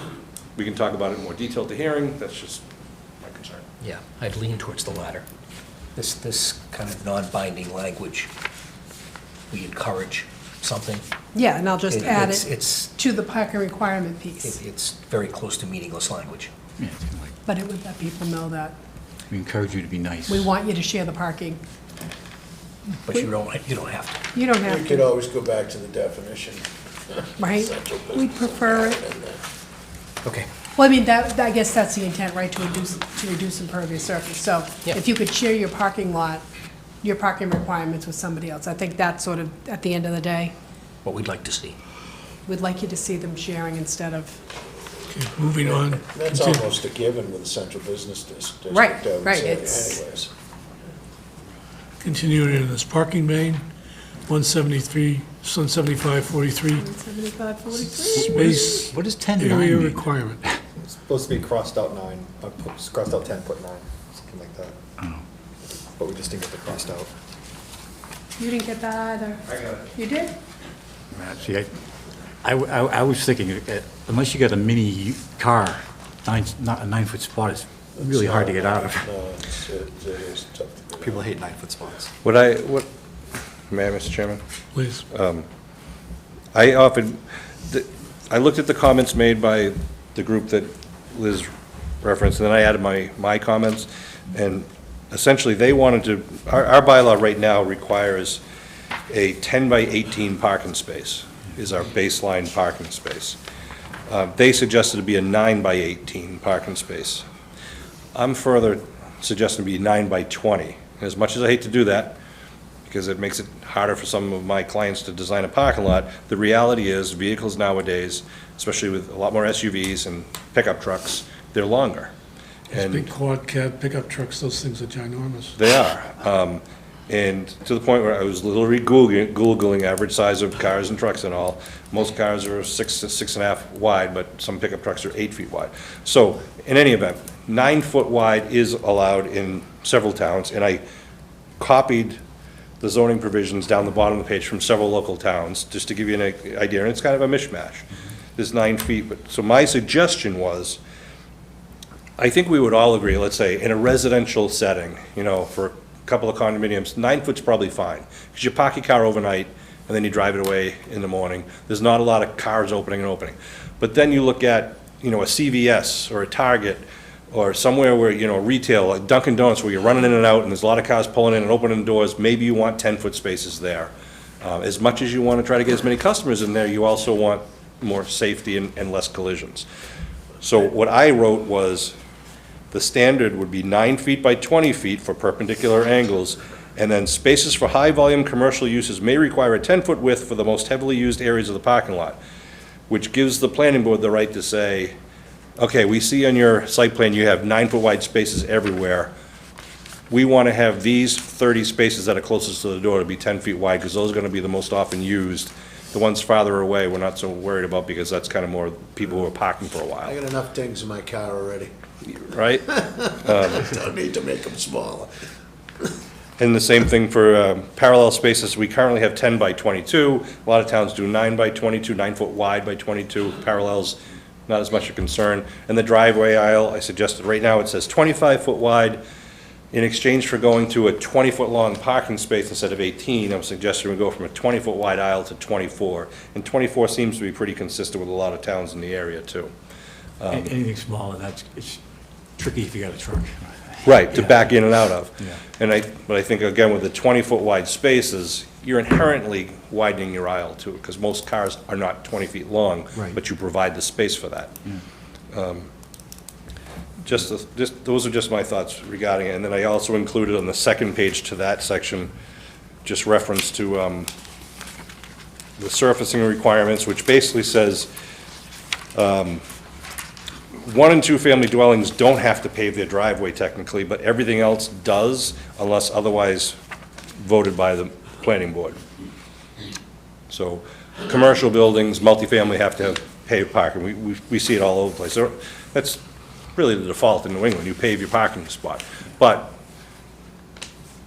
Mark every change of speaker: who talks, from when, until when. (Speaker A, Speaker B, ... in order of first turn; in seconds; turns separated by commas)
Speaker A: 0.6-2.6, Speaker A: 3.2-3.6, Speaker B: 3.8-5.2, Speaker B: 6.0-8.3, Speaker B: 9.5-11.1, Speaker C: 11.3-14.6, Speaker B: 11.9-12.9, Speaker B: 14.4-16.5, Speaker D: 16.8-17.3, Speaker C: 17.5-18.8, Speaker D: 19.3-20.5, Speaker C: 20.3-21.6, Speaker B: 23.1-24.2, Speaker C: 24.3-25.1, Speaker E: 24.6-29.4, Speaker C: 27.4-29.1, Speaker C: 30.8-36.4, Speaker C: 37.0-40.5, Speaker B: 41.0-41.8, Speaker C: 42.5-44.4, Speaker F: 45.1-46.6, Speaker E: 46.1-50.3, Speaker C: 48.7-50.0, Speaker F: 52.0-53.6, Speaker F: 54.3-56.8, Speaker C: 56.8-58.5, Speaker D: 58.1-60.6, Speaker F: 58.2-60.4, Speaker G: 60.8-64.8, Speaker G: 66.0-67.1, Speaker C: 68.4-70.3, Speaker D: 71.1-71.7, Speaker D: 72.4-79.1, Speaker E: 78.0-81.2, Speaker G: 81.0-82.1, Speaker A: 82.2-82.9, Speaker A: 83.7-84.4, Speaker F: 84.8-85.0, Speaker A: 85.1-85.5, Speaker A: 86.5-91.5, Speaker A: 92.0-98.4, Speaker A: 99.1-103.4, Speaker A: 104.1-107.2, Speaker A: 108.2-112.2, Speaker A: 112.8-122.1, Speaker A: 122.7-123.1, Speaker F: 122.7-125.5, Speaker A: 125.6-140.8, Speaker A: 141.6-142.2, Speaker A: 142.8-150.8, Speaker A: 152.2-179.7, Speaker A: 180.4-181.9, Speaker A: 182.7-192.2, Speaker A: 192.9-194.9, Speaker A: 195.6-199.1, Speaker A: 200.1-210.1, Speaker E: 210.0-211.7, Speaker A: 212.1-213.7, Speaker E: 212.8-215.1, Speaker A: 216.4-224.0, Speaker A: 224.5-229.0, Speaker A: 229.7-239.5, Speaker A: 240.2-240.5, Speaker D: 240.3-241.8, Speaker D: 242.4-244.6, Speaker A: 243.8-254.5, Speaker A: 255.3-255.7, Speaker A: 257.1-262.1, Speaker A: 262.9-264.1, Speaker A: 265.6-267.9, Speaker A: 268.9-269.4, Speaker A: 270.6-276.6, Speaker A: 277.2-278.8, Speaker A: 280.3-286.0, Speaker A: 286.6-289.6